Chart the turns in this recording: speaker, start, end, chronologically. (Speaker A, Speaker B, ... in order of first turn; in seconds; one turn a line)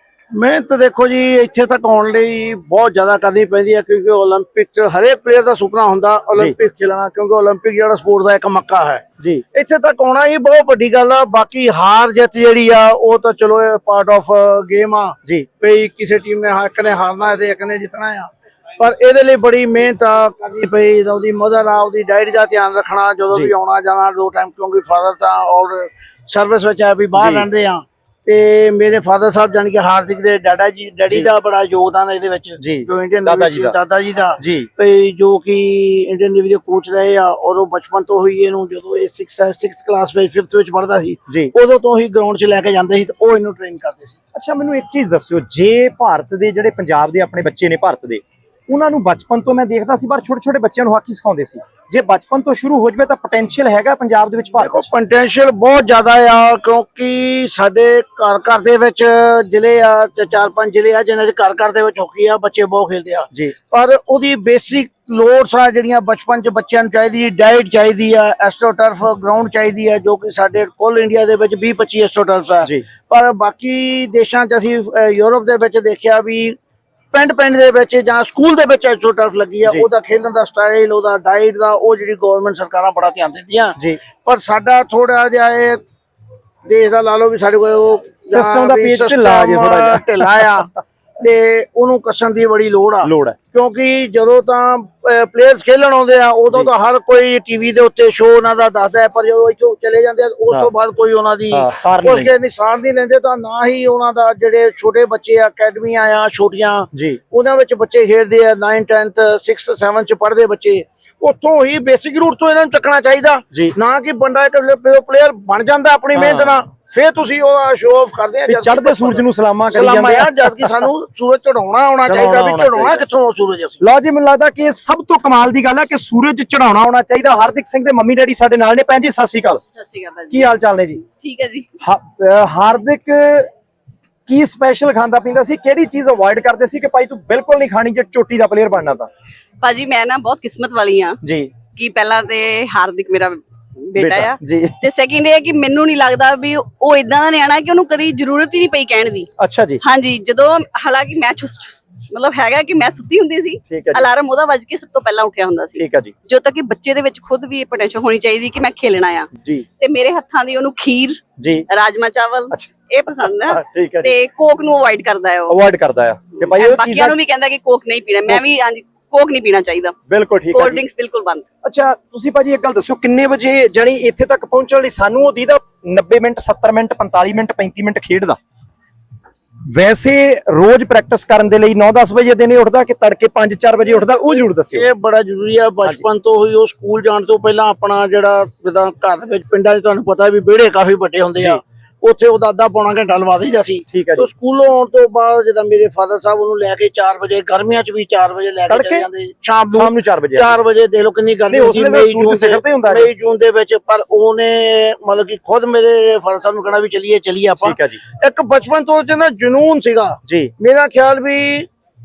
Speaker A: 0.3-44.2
Speaker B: 27.1-27.5
Speaker B: 32.6-33.8
Speaker B: 34.4-34.7
Speaker B: 41.3-41.5
Speaker B: 44.3-54.9
Speaker A: 54.6-76.6
Speaker A: 77.1-85.8
Speaker B: 79.6-79.9
Speaker A: 86.6-123.8
Speaker B: 88.2-90.4
Speaker B: 93.0-93.4
Speaker B: 101.5-102.3
Speaker B: 106.9-107.2
Speaker B: 116.1-116.6
Speaker B: 118.5-120.8
Speaker B: 122.1-123.0
Speaker B: 123.8-129.6
Speaker C: 129.8-130.5
Speaker B: 130.3-131.0
Speaker C: 131.2-131.7
Speaker B: 131.8-133.5
Speaker B: 134.2-139.1
Speaker C: 139.6-141.2
Speaker B: 141.2-141.5
Speaker C: 141.8-149.3
Speaker B: 144.0-144.8
Speaker B: 149.4-149.8
Speaker C: 149.8-159.3
Speaker B: 153.7-154.1
Speaker B: 155.8-156.1
Speaker B: 159.3-159.7
Speaker C: 159.8-165.6
Speaker B: 161.4-161.7
Speaker B: 163.4-164.1
Speaker B: 165.5-167.2
Speaker C: 166.5-169.9
Speaker B: 170.1-170.8
Speaker C: 170.5-171.4
Speaker B: 171.6-178.4
Speaker B: 179.7-184.9
Speaker A: 184.7-211.7
Speaker B: 193.9-194.3
Speaker B: 198.7-199.1
Speaker B: 199.7-200.6
Speaker B: 201.5-203.1
Speaker B: 207.6-208.0
Speaker B: 210.2-210.5